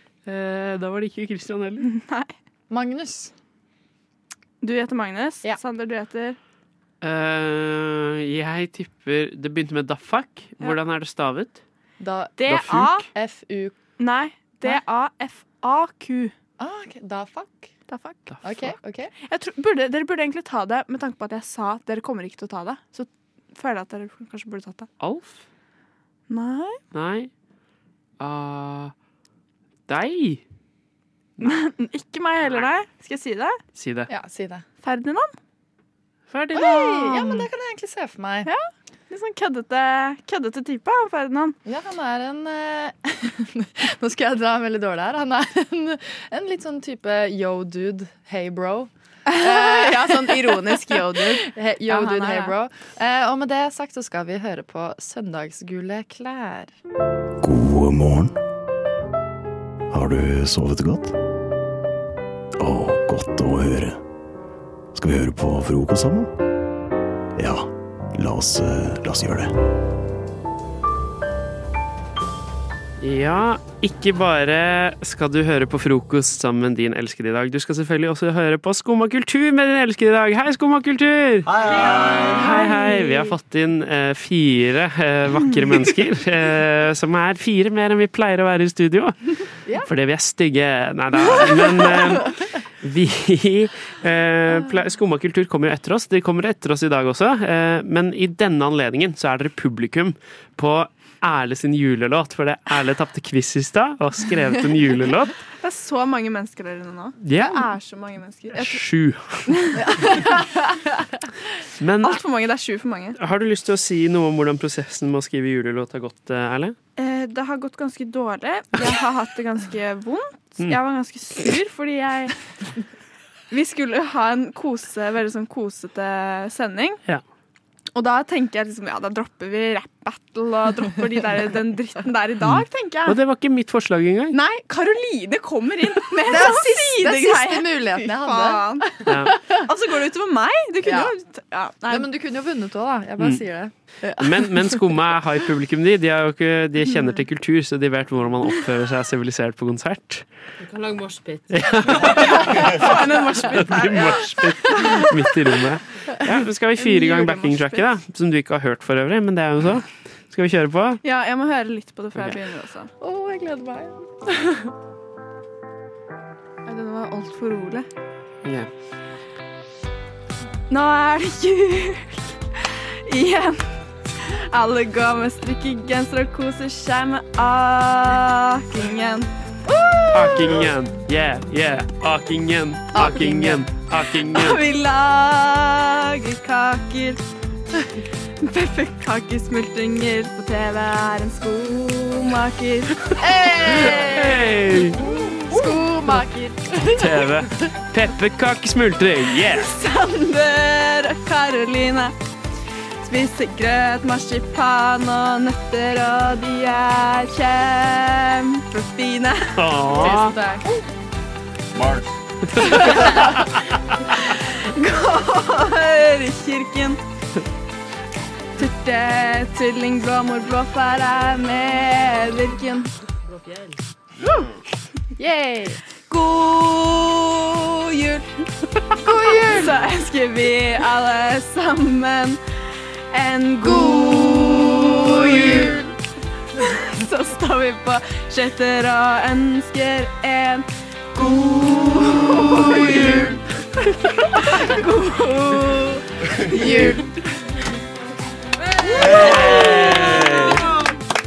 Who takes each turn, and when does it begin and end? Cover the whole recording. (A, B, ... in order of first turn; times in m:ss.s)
0:00.3-0:01.9 A
0:01.8-0:02.3 B
0:02.7-0:03.3 C
0:04.6-0:06.4 B
0:07.0-0:11.6 A
0:12.0-0:13.8 C
0:12.4-0:13.0 B
0:12.5-0:13.0 A
0:14.0-0:16.3 B
0:16.6-0:17.7 C
0:17.9-0:18.3 B
0:18.3-0:18.7 A
0:18.4-0:19.1 C
0:19.2-0:24.9 B
0:25.0-0:25.4 A
0:26.3-0:26.8 B
0:26.9-0:27.3 A
0:28.2-0:28.9 A
0:29.9-0:30.4 A
0:31.4-0:33.6 B
0:33.8-0:34.1 A
0:34.1-0:34.6 C
0:34.8-0:35.3 B
0:36.3-0:37.4 A
0:36.5-0:38.5 C
0:38.4-0:41.6 B
0:41.7-0:56.7 C
0:49.3-0:52.6 B
0:57.4-0:58.3 D
0:59.9-1:01.1 D
1:02.6-1:03.9 D
1:05.0-1:06.2 D
1:08.2-1:09.4 D
1:13.0-1:29.2 A
1:29.8-1:45.4 A
1:45.6-1:48.8 B
1:47.2-1:47.6 A
1:48.5-1:49.6 A
1:49.5-1:50.4 B
1:49.8-1:50.7 C
1:51.8-1:52.2 A
1:52.0-1:53.2 B
1:53.2-1:56.8 A
1:57.0-2:02.4 B
2:03.5-2:07.0 B
2:08.0-2:13.2 B
2:12.5-2:14.4 A
2:14.3-2:18.9 B
2:16.3-2:19.6 C
2:19.1-2:19.3 A
2:19.6-2:22.1 B
2:20.8-2:21.1 C
2:21.9-2:24.5 C
2:24.2-2:30.2 A
2:31.5-2:41.0 A
2:32.0-2:35.1 B
2:36.8-2:37.9 B
2:41.0-2:42.9 B
2:43.0-2:44.6 C
2:46.7-2:47.9 B
2:48.4-2:48.7 A
2:50.7-2:59.3 B
2:59.9-3:00.7 B
3:00.1-3:04.6 A
3:03.0-3:03.6 C
3:03.0-3:03.3 B
3:04.3-3:07.2 B
3:08.4-3:15.8 B
3:13.2-3:14.3 C
3:13.7-3:15.0 A
3:15.0-3:17.4 C
3:16.9-3:19.7 A
3:19.4-3:22.1 B
3:23.0-3:30.2 B
3:29.6-3:30.4 A
3:30.0-3:30.6 C
3:32.5-3:33.4 A
3:32.8-3:33.3 B
3:34.2-3:37.0 B
3:38.6-3:42.9 B
3:45.2-3:45.8 C
3:46.1-3:48.3 B
3:49.0-3:49.8 C
3:49.2-3:52.4 B
3:53.1-3:55.8 B
3:53.7-3:55.8 C
3:56.7-4:03.4 B
4:04.3-4:07.1 B
4:08.9-4:10.4 B
4:09.0-4:10.6 A